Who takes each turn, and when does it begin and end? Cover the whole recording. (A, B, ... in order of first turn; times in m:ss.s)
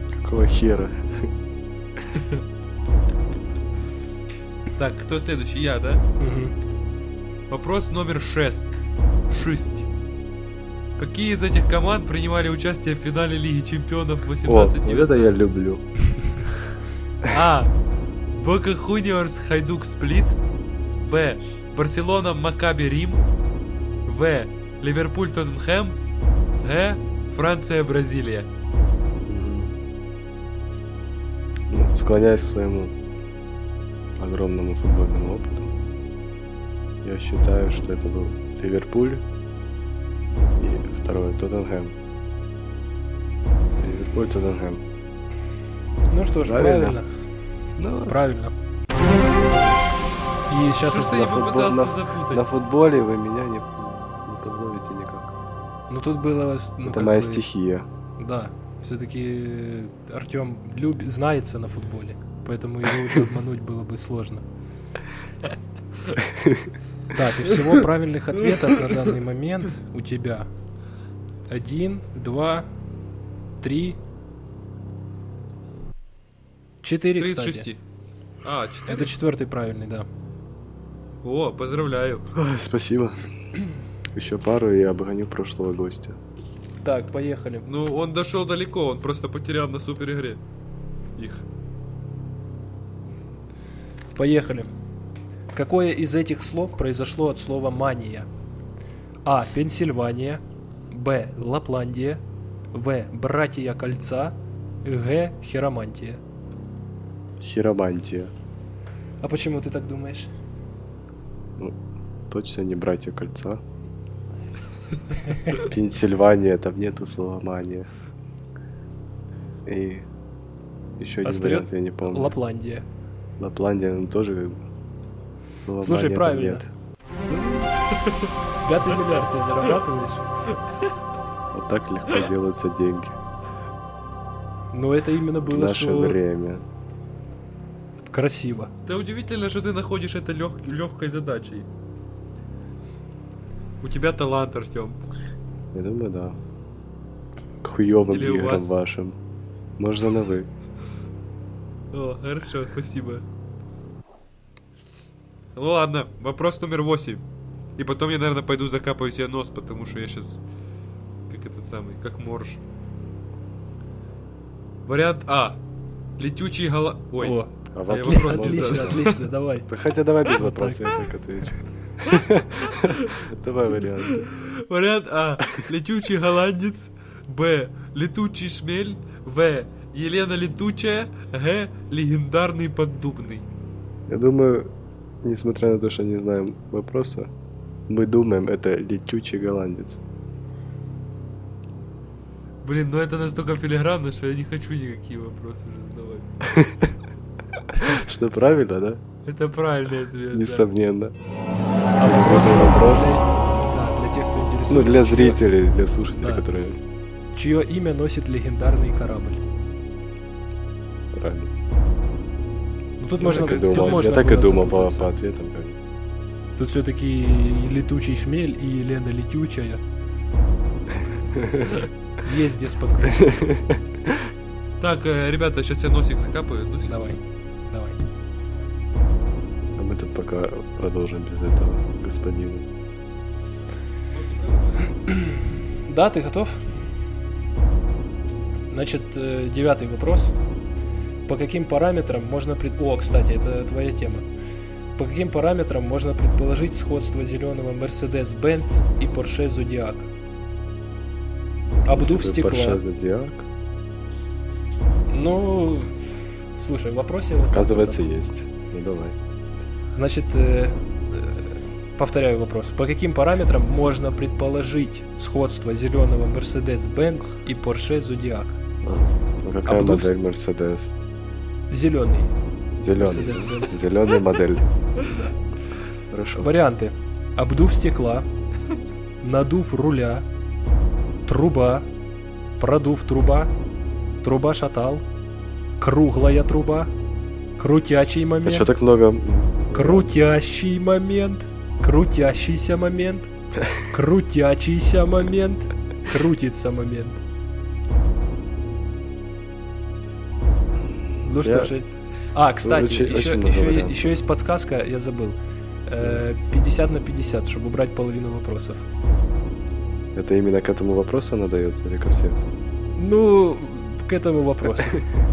0:00.2-0:01.3 A
0:02.1-0:02.4 B
0:04.8-0:06.0 B
0:06.2-0:06.5 C
0:07.5-0:08.8 B
0:09.3-0:09.8 B
0:11.0-0:15.5 B
0:14.4-0:15.8 A
0:17.2-0:17.7 B
0:18.3-0:20.4 B
0:21.0-0:23.2 B
0:24.0-0:26.0 B
0:26.6-0:28.5 B
0:29.3-0:29.7 A
0:31.7-0:32.9 A
0:34.2-0:35.7 A
0:37.0-0:39.2 A
0:40.5-0:41.9 A
0:43.8-0:44.8 A
0:46.1-0:47.1 C
0:46.4-0:47.0 A
0:47.8-0:48.2 A
0:48.1-0:48.5 C
0:49.2-0:49.9 A
0:50.5-0:51.2 C
0:50.8-0:52.5 B
0:51.1-0:55.3 A
0:55.9-0:57.4 C
0:56.8-0:57.9 A
0:58.2-1:04.4 C
1:06.2-1:06.7 A
1:07.1-1:10.5 C
1:11.5-1:12.7 C
1:13.6-1:14.0 C
1:16.8-1:17.7 C
1:17.2-1:17.8 B
1:18.4-1:19.1 B
1:18.9-1:20.1 C
1:21.2-1:22.3 B
1:22.3-1:23.3 A
1:24.1-1:26.2 A
1:26.8-1:27.6 C
1:27.6-1:30.4 B
1:31.2-1:31.4 B
1:34.1-1:34.7 C
1:35.5-1:38.3 C
1:39.2-1:42.2 C
1:42.7-1:46.2 C
1:47.4-1:48.3 A
1:49.2-1:50.3 C
1:52.3-1:53.6 A
1:55.5-1:57.9 A
1:59.6-2:00.1 A
2:01.0-2:02.4 A
2:01.2-2:02.8 C
2:03.4-2:04.6 A
2:05.6-2:06.7 A
2:05.8-2:06.6 C
2:07.3-2:07.7 A
2:08.6-2:10.2 C
2:11.5-2:13.2 A
2:14.7-2:16.2 C
2:15.5-2:16.6 A
2:18.1-2:18.7 C
2:18.8-2:21.7 B
2:23.8-2:25.0 B
2:25.7-2:26.4 A
2:27.6-2:29.2 A
2:28.1-2:28.8 B
2:29.8-2:30.5 A
2:31.9-2:33.2 B
2:35.6-2:37.2 B
2:37.8-2:40.4 B
2:41.3-2:42.6 B
2:44.8-2:45.6 B
2:46.2-2:49.2 B
2:47.2-2:49.7 C
2:47.7-2:49.1 A
2:49.7-2:54.2 A
2:50.3-2:50.9 C
2:54.0-3:03.4 B
3:04.1-3:04.7 A
3:05.2-3:07.3 A
3:07.9-3:10.0 A
3:12.6-3:16.3 B
3:16.4-3:16.9 A
3:17.8-3:19.0 A
3:19.2-3:20.7 B
3:20.3-3:21.1 A
3:22.0-3:25.4 C
3:22.0-3:23.2 A
3:24.7-3:26.8 A
3:26.2-3:26.4 C
3:27.3-3:29.4 C
3:31.1-3:31.5 A
3:33.0-3:35.1 C
3:33.2-3:34.1 B
3:33.2-3:35.8 A
3:36.6-3:39.8 C
3:40.9-3:41.8 A
3:42.2-3:43.5 C
3:43.0-3:44.3 A
3:44.8-3:47.1 B
3:46.8-3:48.0 C
3:49.8-3:52.6 A
3:54.2-3:54.8 B
3:55.0-3:56.6 C
3:58.7-4:00.3 C
4:01.3-4:04.2 C
4:05.0-4:10.1 C
4:11.8-4:12.8 C
4:11.9-4:13.5 A
4:15.1-4:16.0 C
4:16.6-4:18.1 C
4:17.5-4:19.2 A
4:19.9-4:28.6 C
4:28.8-4:30.9 A
4:29.6-4:30.1 C
4:31.7-4:32.3 C
4:32.8-4:34.7 A
4:32.9-4:33.8 C
4:36.1-4:36.5 A
4:36.4-4:38.3 C
4:39.2-4:40.2 C
4:41.2-4:41.9 C
4:42.6-4:43.5 C
4:44.2-4:45.0 C
4:45.8-4:46.9 C
4:47.6-4:48.7 C
4:48.4-4:50.1 A
4:49.7-4:57.2 C
5:01.2-5:08.8 C
5:01.4-5:01.7 A
5:02.6-5:04.2 A
5:10.1-5:12.4 A
5:12.9-5:15.1 C